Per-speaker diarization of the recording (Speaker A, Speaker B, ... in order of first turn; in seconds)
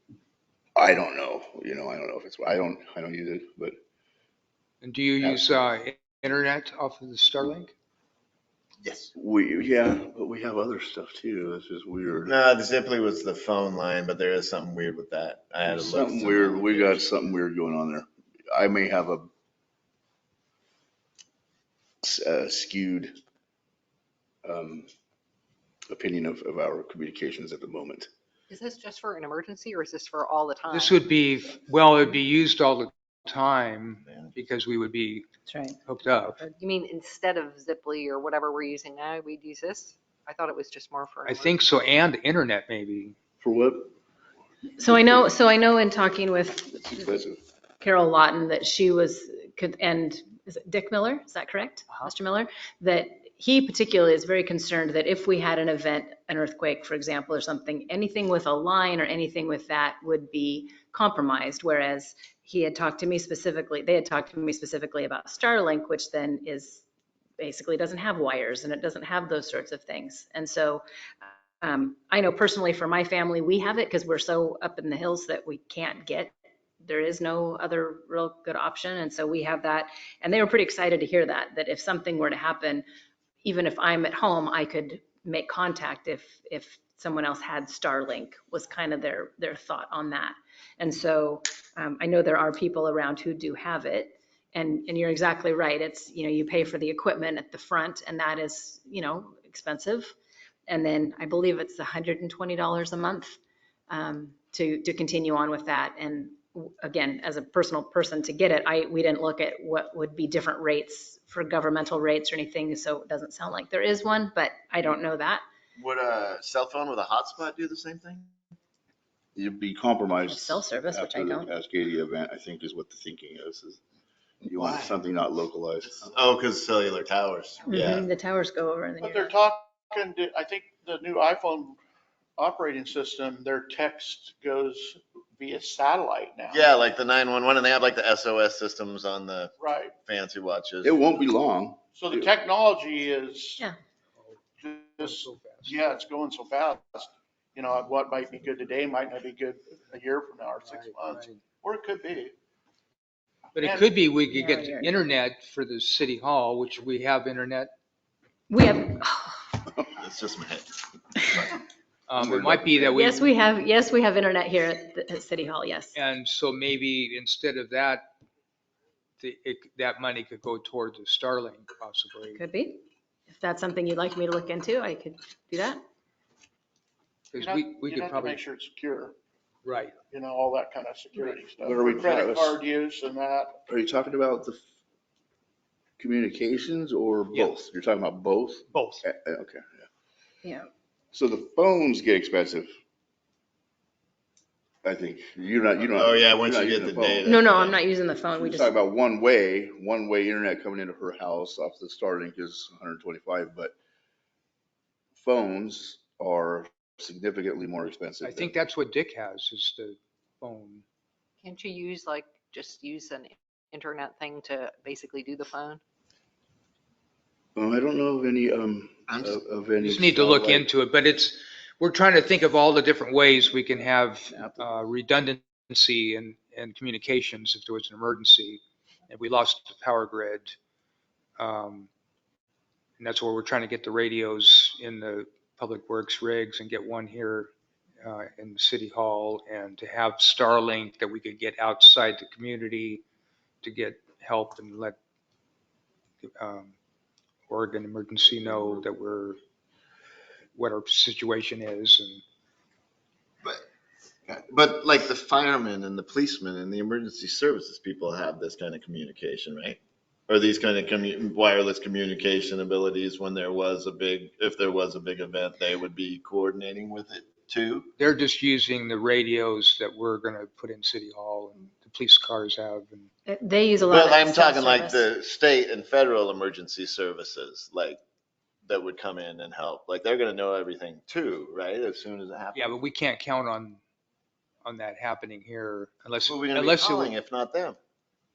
Speaker A: 0.8-3.8, 5.2-5.6, 9.1-12.3, 15.7-19.3, 22.0-23.1, 24.4-24.9, 25.9-28.1, 43.4-43.9, 44.8-45.3, 46.8-47.4, 119.3-123.8, 124.4-126.1, 140.8-142.3, 162.2-163.2, 181.6-182.6, 183.7-184.6, 186.0-189.9, 191.1-192.7, 194.8-197.4, 198.3-203.7, 205.2-208.5, 217.6-220.7, 223.8-224.7
Speaker B: 4.8-7.7, 30.7-35.2, 35.8-36.4, 41.2-43.1, 145.0-145.8, 150.6-151.4, 153.5-157.7, 162.1-163.3, 165.9-168.0, 169.2-172.4, 177.3-178.4, 179.6-180.0, 188.7-189.0, 208.2-210.8, 219.8-230.5, 231.4-231.9, 233.0-237.5, 238.0-243.0, 243.6-244.9, 246.2-246.7, 247.5-249.4, 250.5-252.2, 268.0-273.1, 282.5-283.8, 284.6-287.1
Speaker C: 8.8-9.1, 12.2-17.1, 34.0-34.3, 115.8-118.3, 124.5-125.0, 126.0-128.1, 136.5-141.0, 159.9-161.5, 195.9-197.8, 219.1-219.4, 254.3-267.9, 273.8-278.0, 278.6-282.7, 286.2-287.8
Speaker D: 28.5-31.0, 36.6-41.6, 211.4-215.8
Speaker E: 35.5-35.8, 44.8-47.2, 47.8-66.8, 67.4-70.8, 71.6-82.8, 83.4-100.1, 100.7-103.4, 103.9-115.4, 120.2-121.5, 127.7-129.4, 154.3-155.0, 158.5-159.6, 162.9-165.9, 172.3-175.8, 197.2-198.7, 273.3-275.0
Speaker F: 129.0-131.8, 132.4-136.6, 139.6-139.9, 141.9-143.6, 144.6-152.3, 153.6-153.9, 177.4-179.1, 180.1-183.5